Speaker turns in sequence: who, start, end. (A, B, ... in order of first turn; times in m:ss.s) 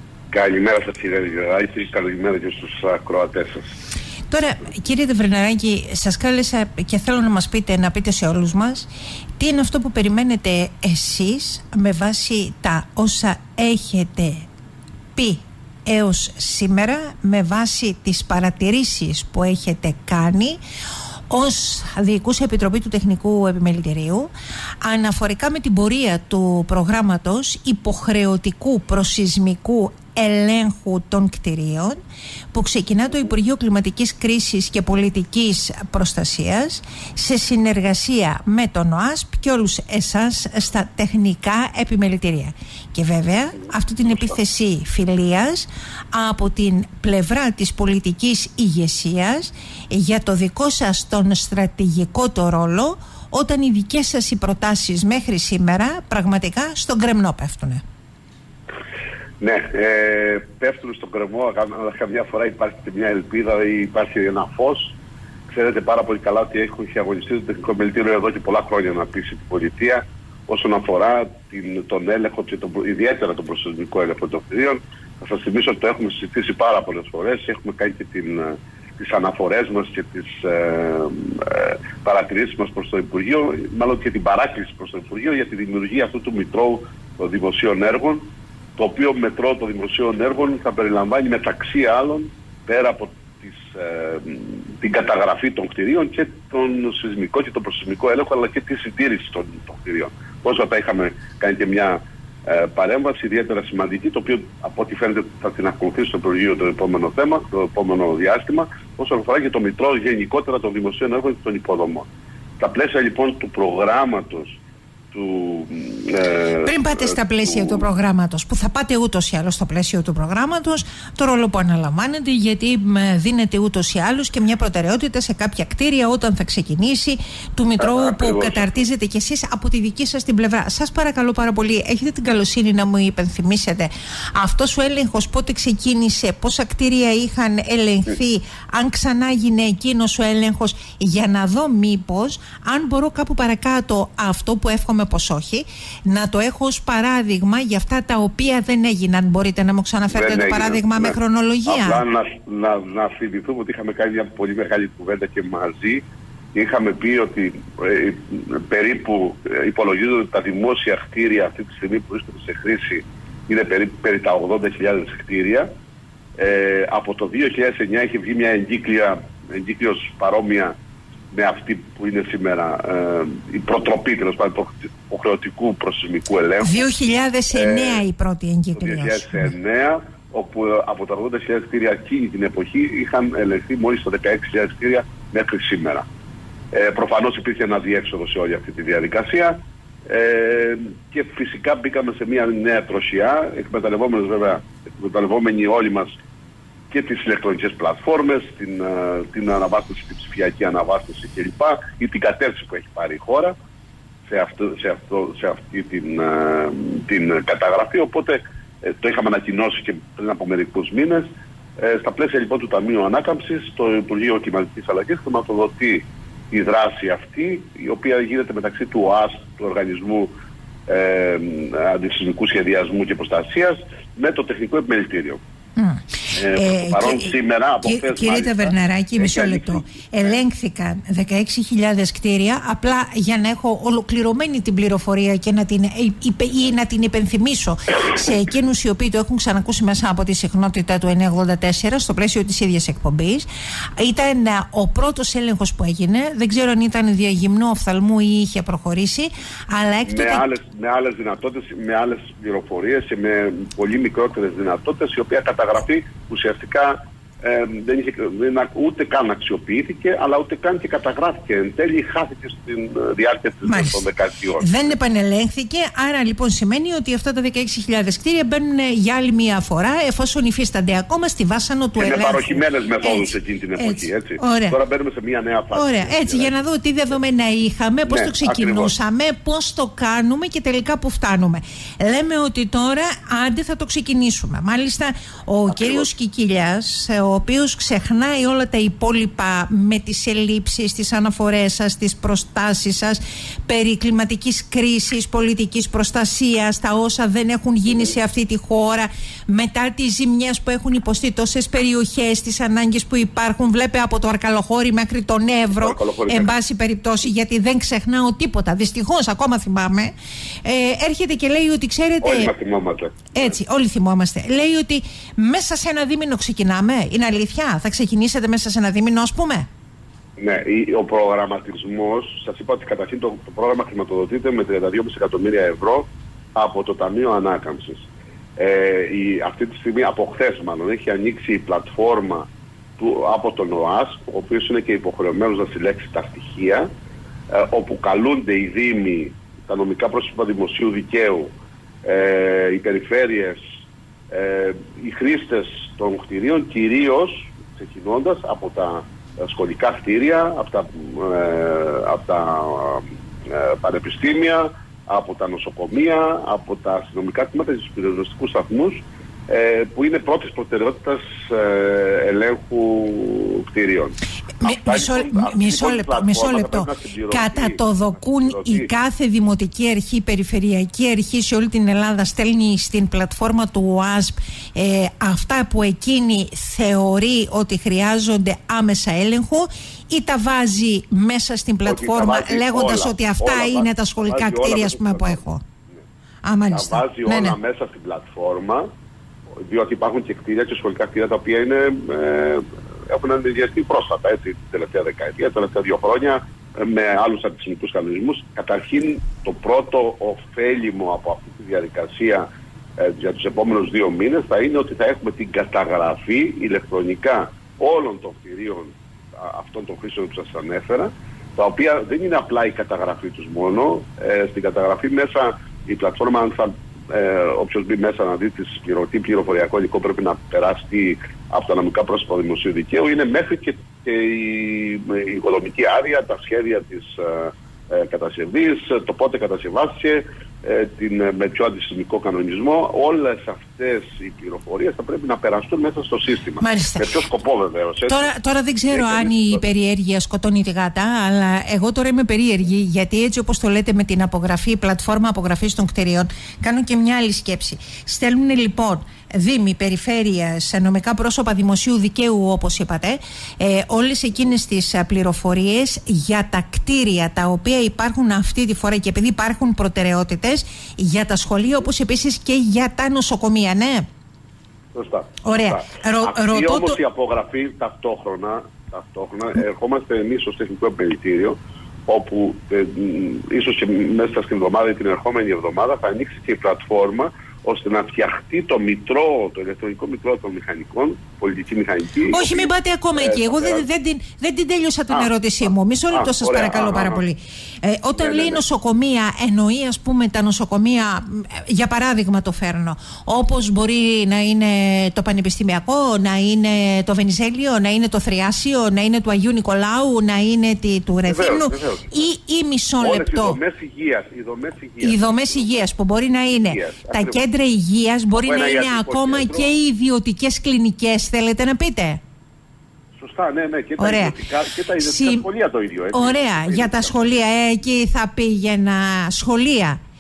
0:00.3-0:03.8 A
0:04.3-0:08.9 B
0:09.4-0:14.5 B
0:15.2-0:20.6 B
0:21.3-0:24.3 B
0:24.8-0:32.0 B
0:32.5-0:57.8 B
0:59.4-1:05.0 A
1:05.5-1:52.1 A
1:52.6-1:54.6 A
1:55.1-1:57.9 A
1:56.6-2:32.0 B
2:07.8-2:08.7 A
2:30.1-2:45.7 A
2:46.4-2:50.7 A
2:51.3-2:56.8 A
2:56.6-2:59.5 B
2:57.5-2:58.0 A
2:58.8-3:06.1 A
3:06.7-3:16.1 A
3:16.9-3:23.6 A
3:24.3-3:40.3 A
3:40.9-3:45.4 A
3:45.8-3:47.3 B
3:46.3-3:50.4 A
3:47.8-4:10.5 B
4:10.0-4:24.8 A
4:23.6-4:24.0 B
4:24.6-4:34.8 B
4:32.0-4:36.6 A
4:35.7-5:10.1 B
4:38.1-4:38.9 A
4:45.7-4:46.1 A
5:05.7-5:06.5 A
5:10.6-5:12.5 B
5:12.2-5:13.6 A
5:13.3-5:19.7 B
5:20.4-5:36.9 A
5:37.5-5:41.5 A
5:42.0-5:43.6 A
5:44.3-6:08.9 A
6:04.6-6:25.6 B
6:21.8-6:26.0 A
6:26.4-6:27.6 B
6:26.7-6:28.9 A
6:29.6-6:42.5 A
6:43.0-7:18.3 A
7:16.6-7:17.2 B
7:18.1-7:44.1 B
7:18.9-7:19.6 A
7:44.9-8:03.9 A
7:45.4-7:47.0 B
8:02.3-8:23.6 B
8:05.1-8:07.2 A
8:08.1-8:08.6 A
8:21.2-8:22.3 A
8:23.0-8:25.8 A
8:25.0-8:32.2 B
8:26.6-8:27.4 A
8:28.3-8:29.8 A
8:33.2-8:37.4 A
8:34.0-8:34.4 B
8:35.0-8:35.4 B
8:36.1-8:40.0 B